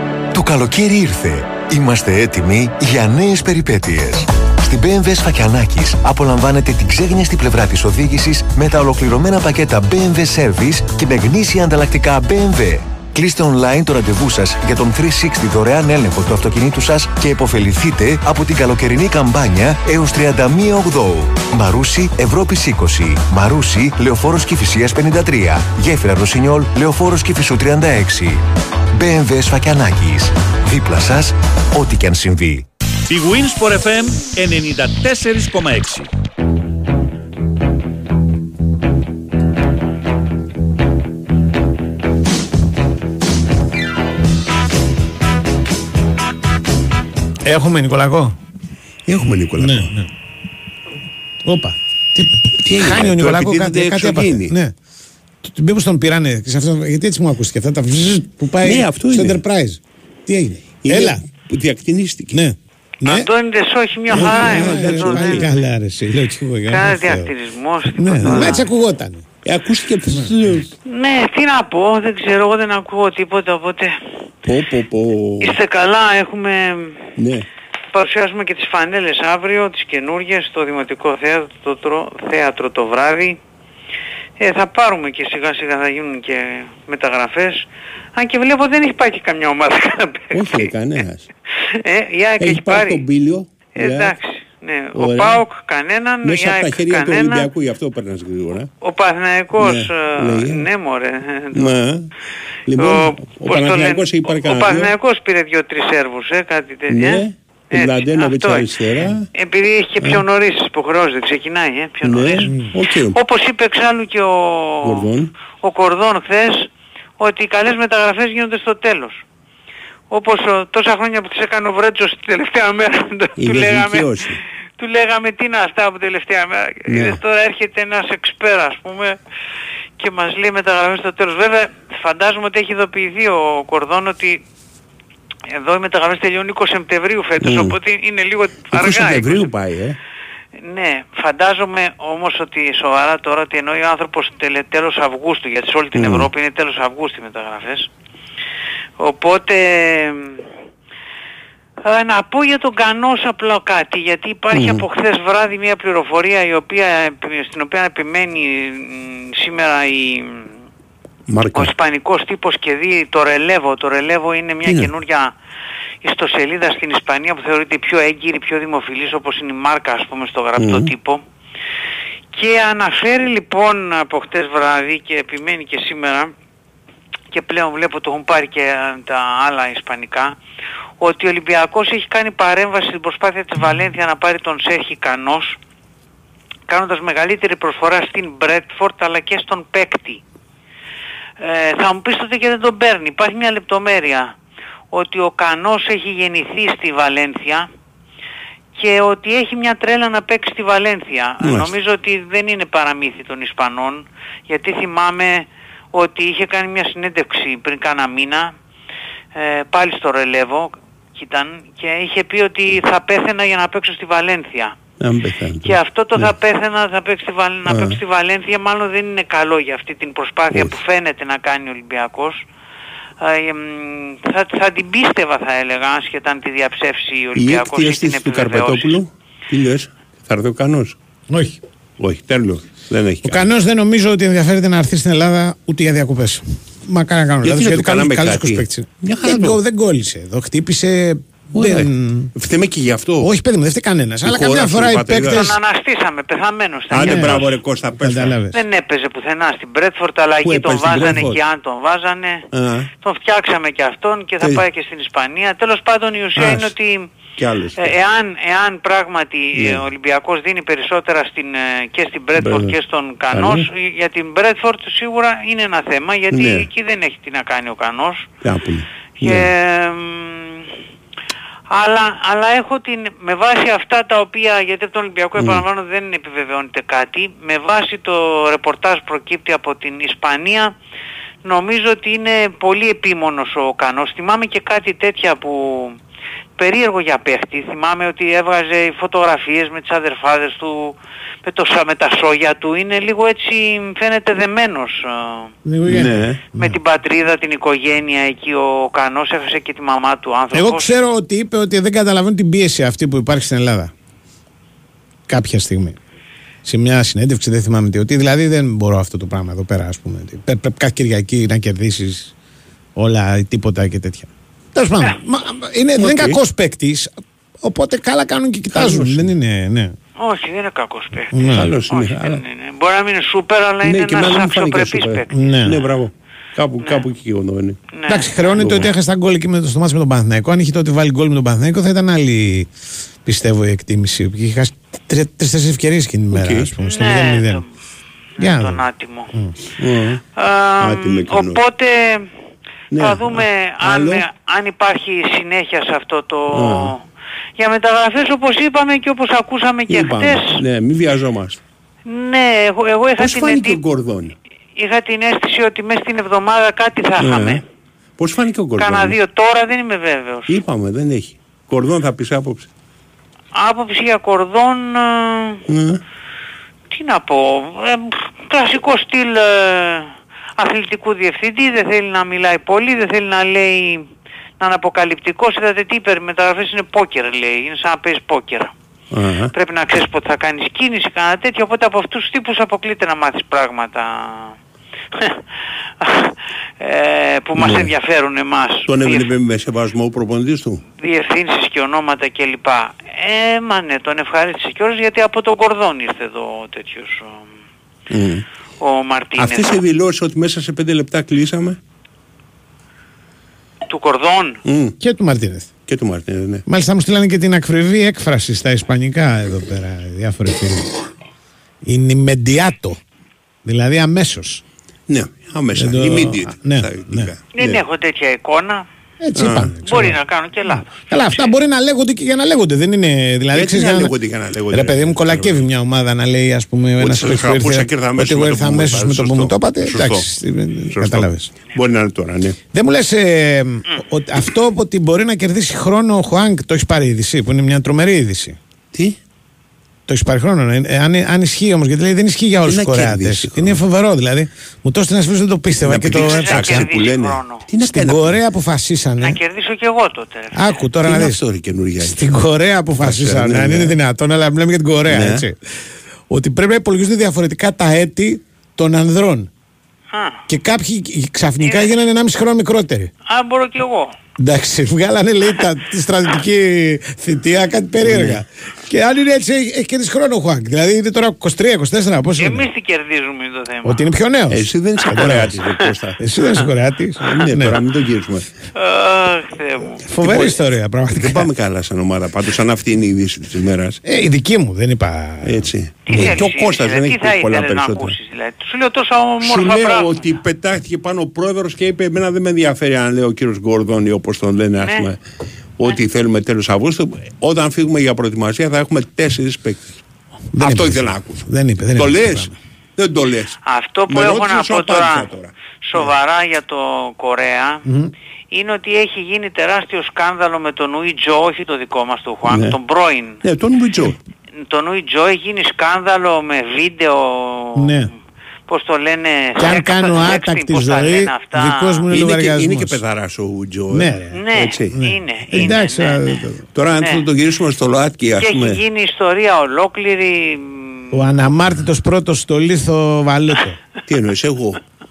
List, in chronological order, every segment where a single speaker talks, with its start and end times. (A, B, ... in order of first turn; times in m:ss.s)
0:00.3-0:32.6 A
0:33.1-0:36.1 B
0:47.4-0:48.4 C
0:49.1-0:49.9 D
0:49.6-0:50.1 C
0:51.5-0:54.7 C
0:52.6-0:54.6 D
0:55.4-1:01.2 C
0:58.6-0:59.4 D
1:00.8-1:02.4 D
1:02.3-1:03.3 C
1:03.1-1:05.5 E
1:04.1-1:05.5 D
1:04.1-1:07.3 C
1:06.7-1:08.7 E
1:08.0-1:09.3 C
1:08.2-1:08.6 D
1:09.4-1:10.7 D
1:10.9-1:14.0 E
1:14.4-1:15.6 D
1:15.4-1:17.0 E
1:17.2-1:17.5 D
1:17.9-1:23.4 E
1:24.4-1:30.7 E
1:30.3-1:31.3 D
1:31.8-1:33.0 E
1:32.4-1:34.2 D
1:33.8-1:37.5 E
1:35.0-1:35.4 D
1:36.2-1:38.7 D
1:38.8-1:41.8 E
1:39.6-1:40.7 D
1:41.5-1:42.1 D
1:42.7-1:44.9 D
1:42.8-1:48.7 E
1:46.9-1:49.3 D
1:49.4-1:55.1 E
1:50.0-1:50.2 D
1:52.0-1:53.2 D
1:54.8-1:55.3 D
1:55.6-1:59.2 E
2:00.1-2:04.2 E
2:03.4-2:04.4 D
2:04.8-2:09.2 E
2:06.9-2:07.2 D
2:10.0-2:14.4 E
2:15.5-2:19.5 E
2:17.4-2:17.8 D
2:18.7-2:20.0 D
2:20.6-2:27.9 E
2:26.0-2:26.3 D
2:29.0-2:30.4 E
2:31.8-2:40.4 E
2:34.5-2:34.8 D
2:41.3-2:41.7 D
2:41.5-2:45.3 E
2:44.6-2:44.9 D
2:46.0-2:51.2 E
2:50.6-2:50.9 D
2:52.3-2:56.3 E
2:57.3-3:00.4 E
3:01.0-3:05.6 E
3:06.7-3:10.2 E
3:11.4-3:14.4 E
3:14.9-3:17.7 E
3:18.8-3:28.5 E
3:21.4-3:21.7 D
3:29.4-3:34.8 E
3:35.0-3:36.3 D
3:35.6-3:42.4 E
3:37.7-3:38.0 D
3:40.5-3:40.8 D
3:43.2-3:49.0 E
3:47.4-3:51.0 D
3:51.3-3:51.6 C
3:52.0-3:53.5 D
3:53.2-4:02.3 C
3:57.4-3:59.6 D
4:01.5-4:03.3 D
4:03.2-4:05.6 C
4:04.2-4:05.5 D
4:05.3-4:07.5 E
4:06.9-4:08.4 D
4:07.0-4:07.4 C
4:08.0-4:08.6 C
4:08.5-4:12.5 E
4:10.4-4:11.4 D
4:12.5-4:12.9 D
4:13.0-4:17.1 E
4:16.4-4:16.7 D
4:17.4-4:17.9 D
4:17.8-4:28.3 E
4:19.6-4:19.9 D
4:22.4-4:22.8 D
4:23.3-4:23.7 D
4:26.3-4:26.7 D
4:28.4-4:29.5 D
4:29.2-4:30.7 E
4:31.7-4:40.7 E
4:35.4-4:35.6 D
4:41.4-4:46.0 E
4:46.6-4:55.5 E
4:55.6-4:56.8 C
4:55.8-4:56.4 D
4:56.6-5:01.0 E
5:00.5-5:03.9 C
5:05.3-5:06.0 C
5:06.6-5:12.3 C
5:13.0-5:17.1 C
5:16.0-5:16.4 D
5:17.6-5:19.9 C
5:18.7-5:19.3 D
5:20.2-5:25.3 E
5:21.3-5:21.8 C
5:21.4-5:22.4 D
5:23.8-5:27.8 D
5:25.3-5:25.8 C
5:28.0-5:28.7 E
5:28.1-5:32.7 C
5:28.6-5:28.9 D
5:33.2-5:37.6 C
5:36.3-5:36.7 D
5:36.8-5:37.6 E
5:38.4-5:38.8 C
5:38.4-5:39.3 E
5:39.8-5:40.2 D
5:40.4-5:42.3 E
5:40.8-5:41.6 D
5:42.9-5:44.2 D
5:43.0-5:47.0 E
5:46.5-5:47.0 D
5:47.6-5:50.6 E
5:49.9-5:51.6 D
5:52.1-5:53.8 E
5:53.2-5:54.3 D
5:54.8-5:57.6 E
5:57.2-5:57.6 D
5:58.2-5:59.2 D
5:58.8-6:00.6 E
6:00.5-6:02.7 D
6:03.6-6:05.6 E
6:05.7-6:06.0 D
6:06.9-6:14.1 E
6:14.6-6:18.7 E
6:19.1-6:19.5 D
6:19.5-6:24.6 E
6:25.2-6:25.4 E
6:26.0-6:29.3 E
6:27.6-6:27.9 D
6:28.9-6:30.8 D
6:31.0-6:37.4 E
6:38.1-6:38.4 D
6:38.8-6:39.8 E
6:39.4-6:41.8 D
6:43.9-6:44.6 E
6:44.6-6:45.0 D
6:45.0-6:45.7 C
6:45.9-6:46.6 D
6:46.7-6:50.9 C
6:51.9-6:53.0 C
6:53.6-6:54.6 C
6:55.1-6:57.8 D
6:55.8-6:57.3 C
6:57.5-6:58.9 E
6:59.2-7:00.2 C
6:59.4-6:59.7 D
6:59.8-7:01.3 E
7:00.9-7:04.2 C
7:03.5-7:05.7 D
7:04.7-7:11.6 C
7:07.0-7:10.3 D
7:10.9-7:12.6 D
7:12.7-7:18.6 C
7:18.9-7:19.2 D
7:20.1-7:26.9 C
7:22.7-7:23.8 D
7:25.7-7:28.4 D
7:26.1-7:27.7 E
7:27.8-7:29.4 C
7:29.2-7:30.8 E
7:30.6-7:31.4 C
7:31.0-7:32.4 D
7:32.0-7:35.6 C
7:33.0-7:34.0 D
7:35.1-7:35.4 D
7:36.3-7:39.5 C
7:40.1-7:40.4 E
7:40.5-7:43.1 C
7:41.6-7:41.9 E
7:43.3-7:44.2 E
7:44.4-7:52.7 C
7:48.0-7:48.4 D
7:52.4-7:54.1 E
7:53.8-7:55.6 C
7:54.5-7:56.2 D
7:56.2-7:57.8 C
7:57.2-7:58.4 D
7:58.8-8:00.0 E
8:00.1-8:01.5 C
8:00.2-8:00.6 D
8:01.1-8:04.0 D
8:04.0-8:06.4 C
8:05.4-8:08.2 D
8:06.1-8:10.3 E
8:09.4-8:15.2 D
8:14.8-8:15.1 E
8:15.8-8:20.0 D
8:20.5-8:22.6 C
8:20.6-8:23.6 D
8:23.6-8:25.3 E
8:24.1-8:26.1 D
8:25.8-8:27.8 E
8:27.9-8:28.1 C
8:28.5-8:33.4 E
8:32.5-8:32.8 D
8:33.4-8:34.2 D
8:34.7-8:38.0 E
8:37.8-8:38.1 C
8:38.7-8:42.1 E
8:39.6-8:43.0 C
8:42.1-8:45.0 D
8:43.9-8:46.7 C
8:44.4-8:46.4 E
8:46.7-8:48.8 D
8:47.0-8:47.2 E
8:48.4-8:51.0 E
8:51.1-8:53.8 C
8:54.1-8:54.8 D